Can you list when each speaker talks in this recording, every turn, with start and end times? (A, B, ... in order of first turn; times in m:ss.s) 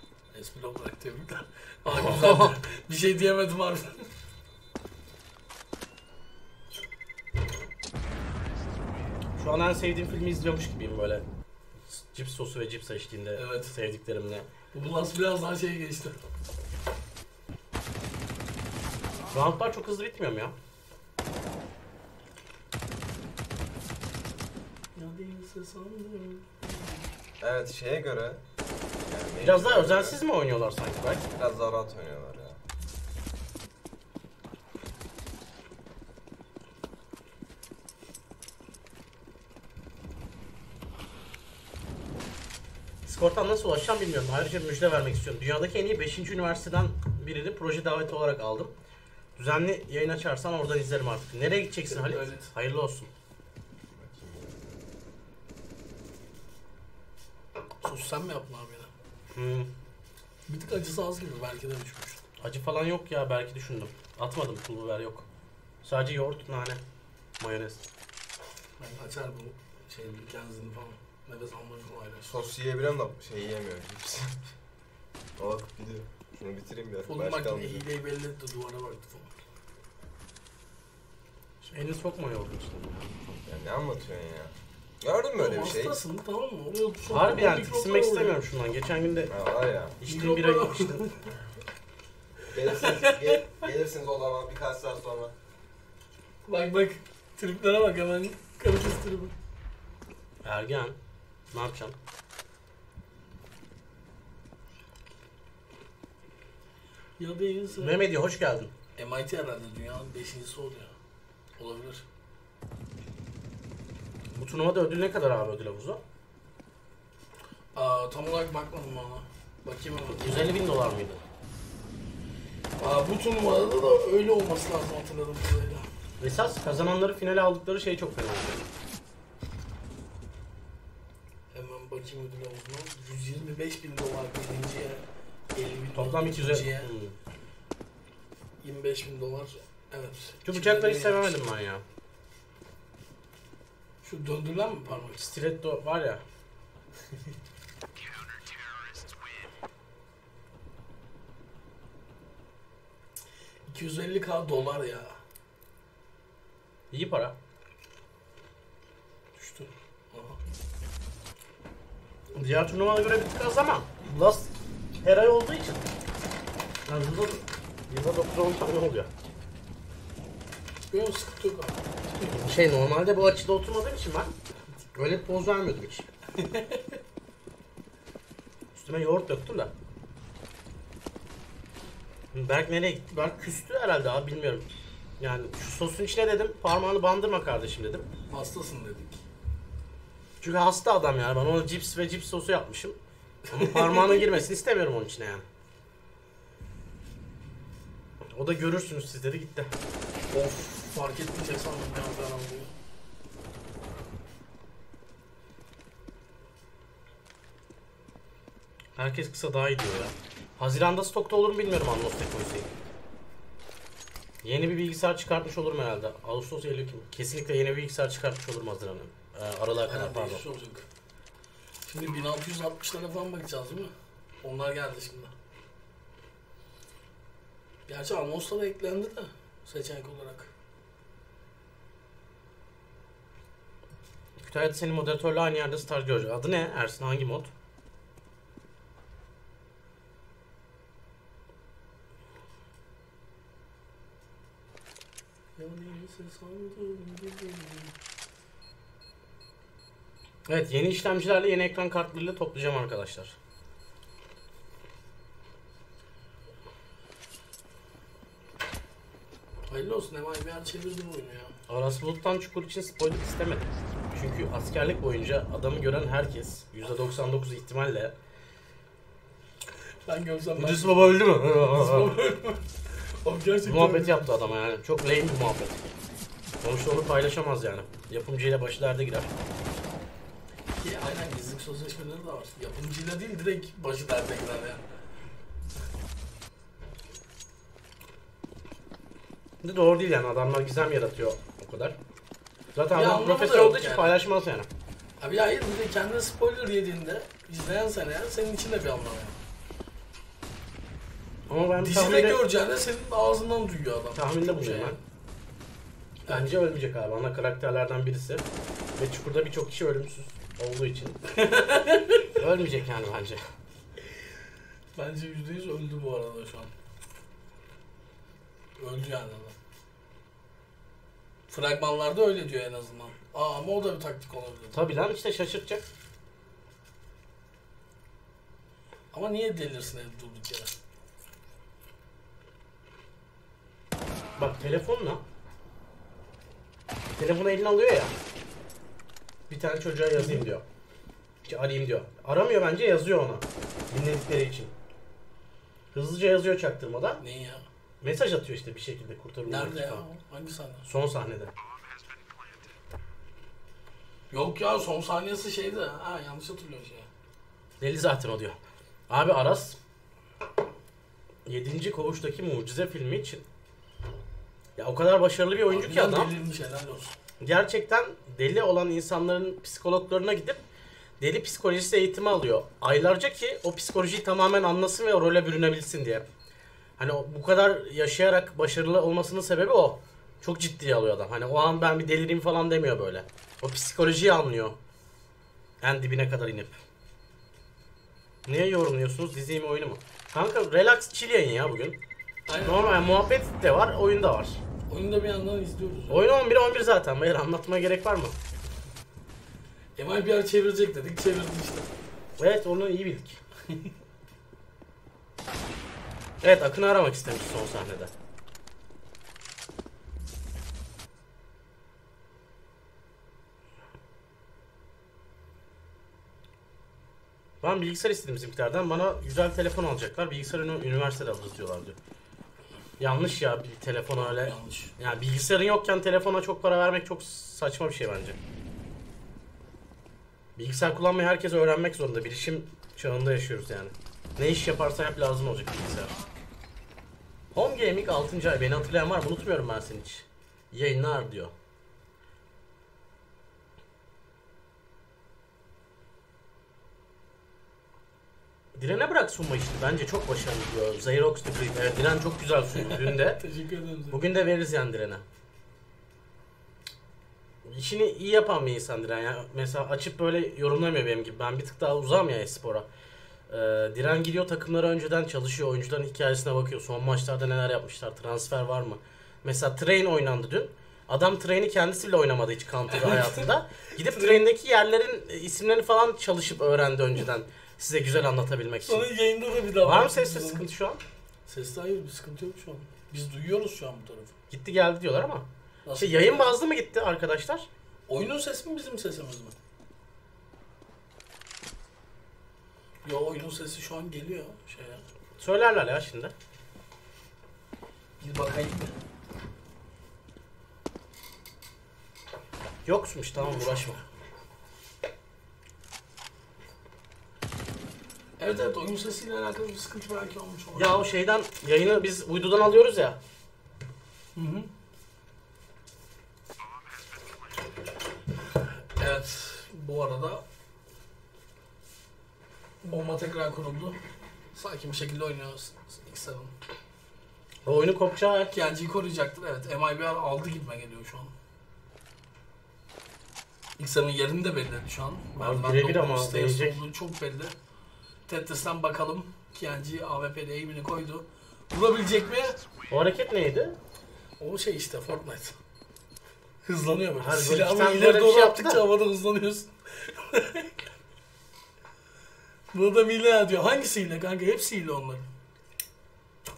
0:00.3-0:04.1 A
0:01.9-0:02.6 B
0:09.4-0:11.2 B
0:11.9-0:14.5 B
0:13.4-0:13.8 A
0:14.7-0:16.2 A
0:19.3-0:20.6 B
0:25.0-0:27.1 A
0:27.4-0:28.4 C
0:29.1-0:30.2 C
0:29.4-0:31.2 B
0:31.3-0:32.6 C
0:43.0-0:48.7 B
0:49.4-0:53.1 B
0:51.9-0:52.5 A
0:53.9-0:54.8 C
0:57.8-0:58.9 A
0:59.3-0:59.7 B
1:00.5-1:02.2 A
1:02.4-1:05.3 B
1:05.8-1:06.8 B
1:07.4-1:07.8 B
1:08.8-1:12.4 A
1:12.3-1:14.4 C
1:15.4-1:17.9 C
1:17.1-1:19.3 A
1:21.6-1:23.2 B
1:23.2-1:26.0 C
1:25.4-1:28.4 A
1:27.1-1:29.3 B
1:29.3-1:30.0 C
1:30.0-1:31.1 B
1:30.1-1:31.2 A
1:32.5-1:35.3 C
1:32.6-1:33.4 A
1:36.4-1:39.3 A
1:40.4-1:41.0 B
1:41.5-1:42.0 B
1:47.2-1:48.0 A
1:47.8-1:48.7 B
1:49.0-1:50.9 A
1:51.6-1:52.0 A
1:54.4-1:56.0 B
1:57.7-2:00.5 A
2:00.1-2:01.2 B
2:02.8-2:05.9 A
2:06.2-2:08.6 B
2:11.5-2:15.0 A
2:15.6-2:16.9 A
2:16.0-2:17.2 B
2:18.6-2:21.4 A
2:20.4-2:21.8 B
2:24.0-2:25.2 A
2:25.2-2:26.2 B
2:33.7-2:35.2 A
2:36.9-2:37.4 B
2:39.4-2:40.4 A
2:42.4-2:44.5 B
2:45.0-2:45.8 B
2:46.9-2:49.1 B
2:50.9-2:52.4 A
2:52.3-2:54.4 B
2:55.0-2:56.1 B
2:56.4-2:57.0 A
2:58.8-2:59.7 B
3:02.3-3:04.7 B
3:05.2-3:08.1 B
3:08.3-3:09.2 A
3:10.4-3:13.0 B
3:13.5-3:14.3 A
3:13.5-3:15.5 B
3:18.3-3:19.7 B
3:20.3-3:22.7 A
3:29.0-3:32.7 B
3:34.4-3:40.4 B
3:39.9-3:40.8 A
3:41.8-3:45.3 A
3:47.9-3:50.5 A
3:54.4-3:57.5 B
4:05.6-4:07.9 A
4:10.5-4:13.4 B
4:19.7-4:21.6 A
4:21.7-4:28.2 B
4:30.1-4:32.7 A
4:30.6-4:32.1 B
4:33.2-4:34.3 A
4:33.6-4:35.8 B
4:36.6-4:39.3 B
4:40.8-4:44.8 A
4:49.6-4:52.0 B
4:52.8-4:54.7 B
4:52.9-4:54.2 A
4:55.2-4:59.4 A
5:01.5-5:02.4 B
5:01.8-5:05.0 A
5:04.2-5:05.0 B
5:06.3-5:06.5 A
5:06.3-5:08.5 B
5:09.0-5:11.2 B
5:11.3-5:12.3 A
5:12.4-5:13.4 B
5:15.0-5:16.7 A
5:18.8-5:19.6 A
5:21.5-5:24.8 A
5:24.7-5:25.8 B
5:29.1-5:30.7 A
5:34.4-5:35.2 B
5:37.2-5:38.1 B
5:39.5-5:40.6 B
5:40.2-5:40.4 A
5:41.4-5:44.7 B
5:45.9-5:47.2 B
5:47.2-5:47.6 A
5:48.0-5:50.0 B
5:49.4-5:50.9 A
5:50.8-5:51.5 B
5:54.3-5:57.1 A
5:57.8-5:58.6 B
5:59.1-5:59.8 B
6:01.5-6:03.4 B
6:04.8-6:06.3 B
6:05.7-6:07.2 A
6:07.4-6:10.6 B
6:11.2-6:16.3 B
6:17.0-6:24.8 B
6:25.8-6:26.8 B
6:28.5-6:32.0 B
6:32.5-6:33.1 A
6:32.6-6:34.6 B
6:34.9-6:36.3 A
6:36.1-6:38.4 B
6:40.0-6:41.9 A
6:42.4-6:43.4 B
6:46.4-6:48.1 B
6:57.6-7:02.0 B
7:03.0-7:08.4 B
7:04.2-7:04.9 A
7:10.6-7:16.2 B
7:17.5-7:21.5 B
7:28.8-7:33.4 B
7:32.8-7:34.2 A
7:34.1-7:35.2 B
7:37.6-7:42.9 B
7:43.5-7:59.1 B
7:52.9-7:54.4 A
7:58.9-8:00.6 A
7:59.8-8:01.0 B
8:01.5-8:04.3 A
8:04.5-8:07.7 B
8:05.8-8:06.6 A
8:08.1-8:09.6 A
8:13.0-8:15.0 A
8:15.4-8:16.3 B
8:18.2-8:19.0 A
8:22.8-8:24.0 B
8:23.4-8:24.0 A
8:28.4-8:31.0 A
8:30.7-8:33.2 B
8:34.4-8:34.7 A
8:39.0-8:40.4 A
8:42.8-8:44.0 A
8:44.5-8:46.5 A
8:47.7-8:48.5 B
8:48.5-8:51.3 A
8:53.8-8:57.5 A
8:55.4-8:56.8 B
8:58.3-9:02.6 A
9:02.9-9:03.8 B
9:04.4-9:05.6 A
9:06.6-9:10.7 A
9:07.2-9:08.8 B
9:12.7-9:15.3 A